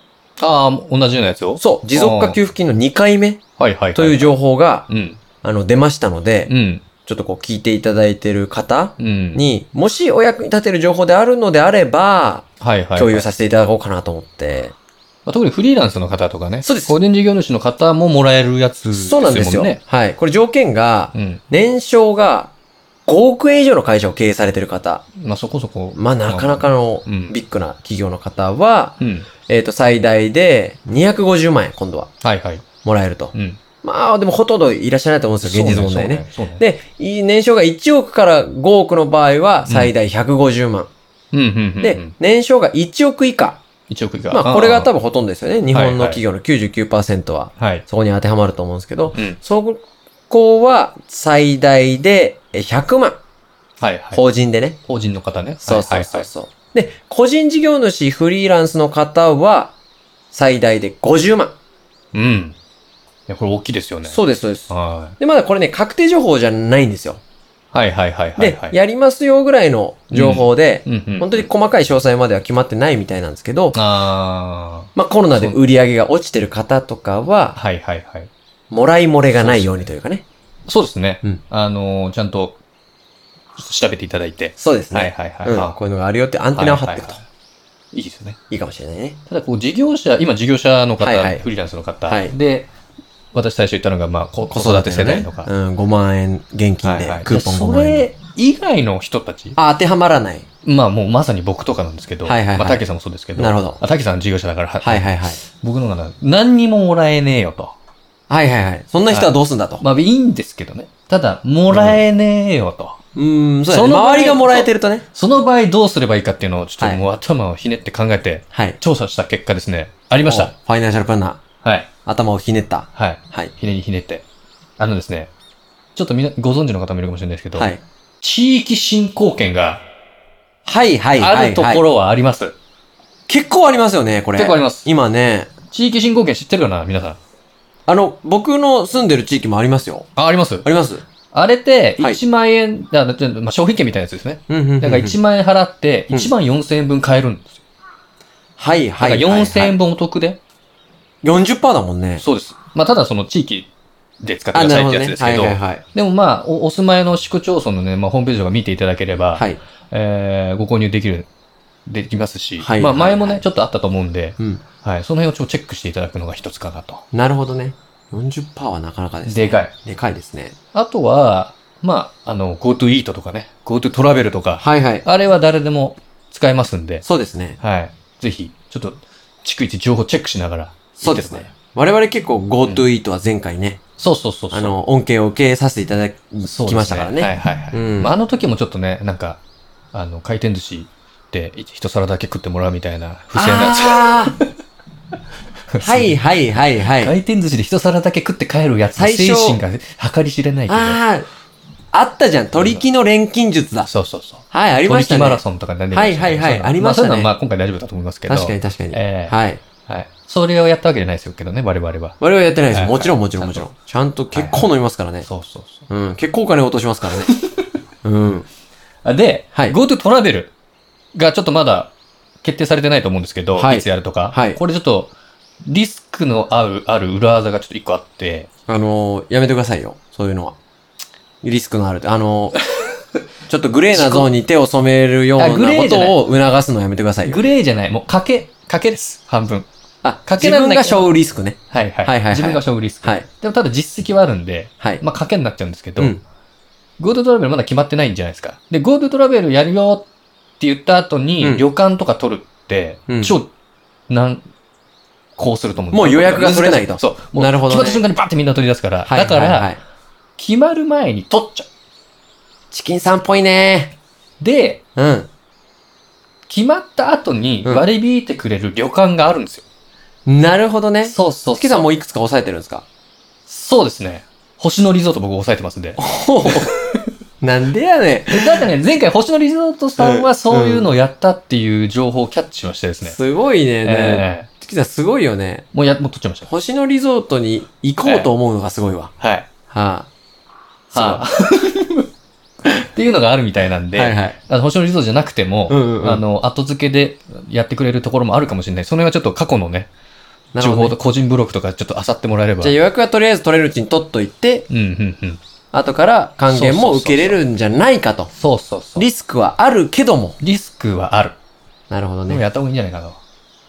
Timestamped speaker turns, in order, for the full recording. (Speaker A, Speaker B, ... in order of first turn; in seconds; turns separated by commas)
Speaker A: 0.4-2.4, Speaker B: 1.6-3.4, Speaker A: 3.6-4.3, Speaker B: 3.9-4.9, Speaker A: 4.9-5.2, Speaker B: 5.4-6.5, Speaker A: 6.5-6.8, Speaker B: 7.0-14.7, Speaker A: 9.0-9.4, Speaker A: 12.6-13.2, Speaker A: 15.2-19.8, Speaker B: 16.6-16.9, Speaker B: 18.9-22.5, Speaker A: 21.1-21.4, Speaker B: 23.1-25.0, Speaker A: 25.1-27.3, Speaker B: 25.9-32.1, Speaker A: 29.0-29.3, Speaker A: 32.2-32.6, Speaker B: 32.8-40.9, Speaker A: 33.3-33.6, Speaker A: 35.4-36.6, Speaker A: 39.6-39.9, Speaker A: 41.3-42.1, Speaker B: 41.8-43.6, Speaker A: 43.9-44.9, Speaker B: 44.3-53.2, Speaker A: 45.7-46.2, Speaker A: 47.6-47.8, Speaker A: 53.8-54.2, Speaker B: 54.1-54.8, Speaker A: 54.9-56.3, Speaker B: 55.6-59.7, Speaker B: 60.3-61.5, Speaker A: 62.1-62.5, Speaker A: 63.3-64.2, Speaker B: 64.0-67.2, Speaker A: 64.7-65.2, Speaker A: 67.7-68.7, Speaker B: 68.4-73.8, Speaker A: 70.1-71.5, Speaker A: 73.7-75.6, Speaker B: 74.9-77.6, Speaker A: 77.5-78.3, Speaker B: 78.7-80.2, Speaker A: 79.3-79.9, Speaker A: 80.7-82.6, Speaker A: 83.6-85.8, Speaker B: 84.6-87.2, Speaker A: 86.5-87.2, Speaker A: 87.9-88.4, Speaker B: 88.5-89.2, Speaker A: 89.3-92.7, Speaker B: 91.0-91.4, Speaker B: 92.1-92.3, Speaker A: 93.3-95.5, Speaker B: 94.5-98.1, Speaker A: 96.8-99.6, Speaker B: 99.5-100.5, Speaker A: 100.6-107.7, Speaker B: 102.2-102.8, Speaker B: 103.3-103.8, Speaker B: 104.8-105.4, Speaker B: 108.3-109.8, Speaker A: 109.1-113.0, Speaker B: 111.7-112.0, Speaker B: 113.1-115.0, Speaker A: 113.7-120.5, Speaker B: 118.5-118.8, Speaker B: 120.2-121.4, Speaker A: 121.6-121.9, Speaker B: 122.0-123.5, Speaker A: 122.9-124.2, Speaker A: 124.8-125.3, Speaker A: 126.0-129.8, Speaker B: 127.5-127.8, Speaker B: 130.6-131.8, Speaker A: 131.1-132.6, Speaker B: 133.3-135.5, Speaker A: 134.3-134.9, Speaker A: 135.7-137.2, Speaker B: 137.8-140.1, Speaker A: 140.2-140.7, Speaker B: 140.6-141.0, Speaker A: 141.3-147.6, Speaker B: 144.5-145.2, Speaker B: 148.6-149.8, Speaker A: 149.0-150.4, Speaker B: 151.2-152.2, Speaker A: 152.2-161.3, Speaker B: 154.5-155.8, Speaker B: 159.3-159.6, Speaker A: 161.8-167.0, Speaker B: 162.6-163.4, Speaker B: 167.1-170.5, Speaker A: 169.2-169.7, Speaker A: 170.7-177.0, Speaker B: 174.6-175.0, Speaker B: 177.0-177.6, Speaker A: 177.6-181.5, Speaker B: 181.0-183.8, Speaker A: 184.0-184.8, Speaker B: 184.5-188.1, Speaker A: 186.4-189.4, Speaker A: 189.9-194.5, Speaker B: 193.3-194.3, Speaker A: 195.7-196.1, Speaker B: 195.8-197.1, Speaker A: 196.8-201.0, Speaker B: 198.9-199.6, Speaker B: 200.7-201.3, Speaker B: 201.9-203.9, Speaker A: 202.6-202.8, Speaker A: 203.8-209.3, Speaker B: 204.5-207.3, Speaker B: 208.3-209.6, Speaker A: 209.9-212.2, Speaker B: 212.2-215.2, Speaker A: 212.7-213.7, Speaker A: 214.3-214.7, Speaker A: 215.2-215.9, Speaker B: 215.9-217.3, Speaker A: 217.2-217.6, Speaker B: 218.0-218.4, Speaker A: 219.0-220.5, Speaker A: 221.1-225.1, Speaker B: 223.5-224.6, Speaker A: 225.7-228.5, Speaker B: 228.7-230.6, Speaker B: 231.4-232.6, Speaker B: 233.5-237.4, Speaker A: 233.9-234.3, Speaker A: 235.4-236.2, Speaker A: 237.2-239.7, Speaker B: 240.0-243.2, Speaker A: 240.2-241.1, Speaker A: 241.7-246.1, Speaker A: 247.0-250.1, Speaker A: 250.6-253.5, Speaker B: 253.1-253.3, Speaker A: 254.1-254.5, Speaker A: 255.4-259.7, Speaker B: 255.9-258.0, Speaker B: 259.0-259.8, Speaker A: 260.4-261.7, Speaker B: 262.7-263.9, Speaker A: 264.4-264.8, Speaker B: 264.9-265.3, Speaker A: 266.5-269.6, Speaker B: 270.2-272.8, Speaker A: 271.0-271.9, Speaker A: 273.5-277.0, Speaker B: 276.0-276.7, Speaker B: 277.4-278.5, Speaker A: 278.3-283.1, Speaker B: 280.0-280.9, Speaker B: 283.0-285.6, Speaker A: 283.8-284.5, Speaker A: 285.7-286.5, Speaker B: 286.4-289.1, Speaker A: 288.0-288.3, Speaker A: 289.2-289.5, Speaker B: 289.7-290.1, Speaker B: 290.9-291.2, Speaker A: 290.9-292.1, Speaker A: 292.6-299.9, Speaker B: 293.9-294.4, Speaker B: 295.7-296.2, Speaker B: 300.5-301.0, Speaker A: 300.6-302.8, Speaker B: 302.6-304.7, Speaker A: 304.7-305.4, Speaker B: 305.7-308.3, Speaker A: 306.5-307.4, Speaker A: 308.4-309.1, Speaker B: 309.0-310.4, Speaker A: 310.4-311.4, Speaker B: 311.9-312.4, Speaker A: 312.3-313.2